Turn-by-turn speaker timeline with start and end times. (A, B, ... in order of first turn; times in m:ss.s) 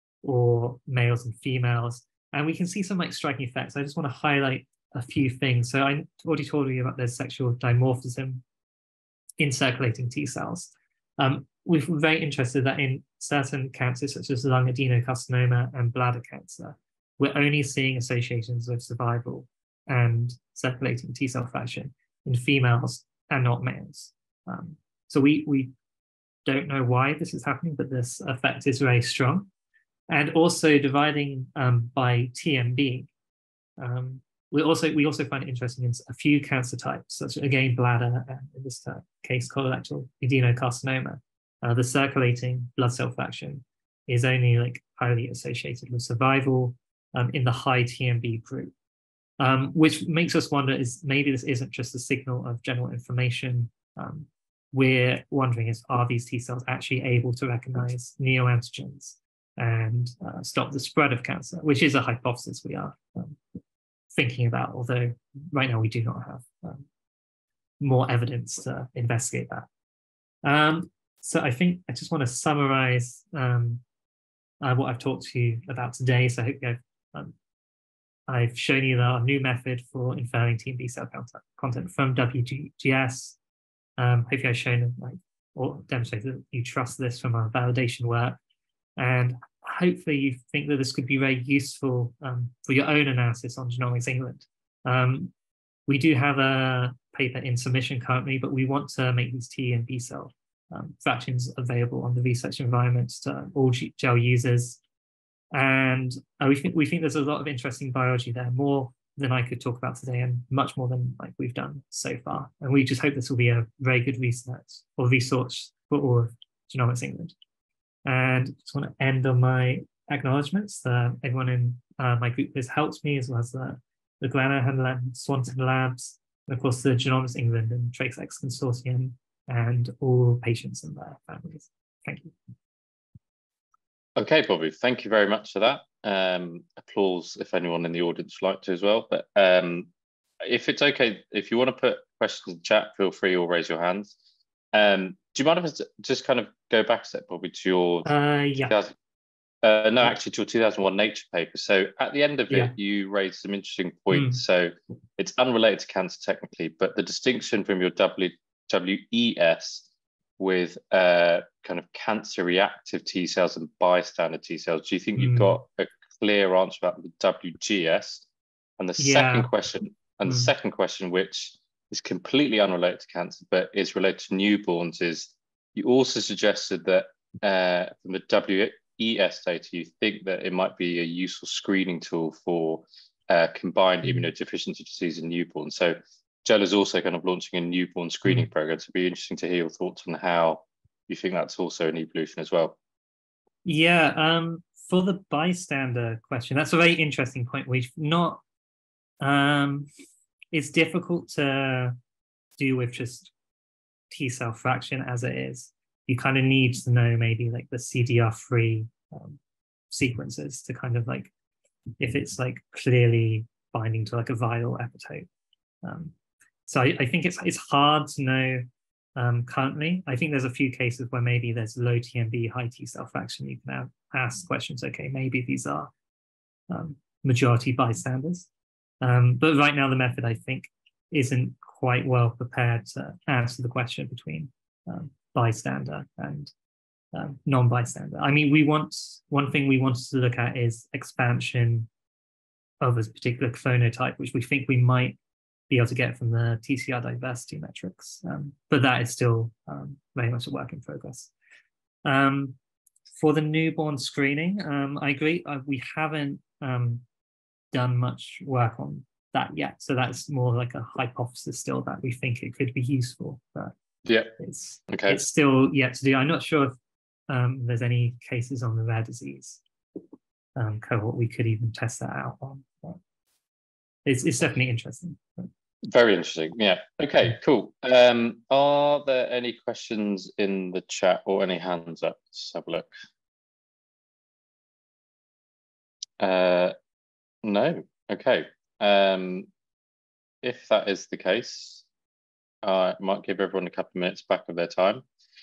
0:00.2-0:08.4 A
0:09.4-0:25.7 A
0:26.4-0:29.5 A
0:30.1-0:33.1 A
0:33.8-0:48.7 A
0:49.4-1:03.4 A
1:04.1-1:06.9 A
1:07.8-1:09.7 A
1:10.4-1:13.8 A
1:14.6-1:17.3 A
1:18.3-1:23.4 A
1:24.0-1:28.4 A
1:29.0-1:35.3 A
1:35.9-1:44.8 A
1:45.5-1:57.4 A
1:58.0-2:12.3 A
2:14.2-2:19.9 B
2:20.4-2:24.1 B
2:24.7-2:28.1 B
2:28.0-2:28.8 A
2:28.6-2:29.0 B
2:29.6-2:39.8 B
2:32.5-2:32.7 A
2:34.1-2:34.4 A
2:40.4-2:48.2 B
2:45.2-2:45.6 A
2:48.8-3:12.8 B
2:49.0-2:49.5 A
2:50.3-2:50.5 A
3:13.6-3:18.4 A
3:19.2-3:19.9 A
3:20.5-3:21.9 A
3:22.6-3:23.3 A
3:24.1-3:29.4 A
3:29.9-3:31.3 A
3:32.0-3:35.3 A
3:35.8-3:36.1 A
3:36.7-3:38.6 A
3:39.2-3:45.9 A
3:46.7-3:48.5 A
3:49.0-3:56.5 A
3:57.1-4:01.9 A
4:02.8-4:05.2 A
4:05.7-4:11.3 A
4:12.0-4:12.6 A
4:13.1-4:17.0 A
4:17.7-4:23.7 A
4:24.0-4:24.3 B
4:24.4-4:26.7 A
4:24.9-4:25.2 B
4:27.3-4:29.6 A
4:30.6-4:33.0 A
4:34.0-4:35.5 A
4:35.8-4:42.9 B
4:46.2-4:46.7 B
4:47.4-4:49.5 B
4:50.4-4:51.8 B
4:52.6-4:55.0 B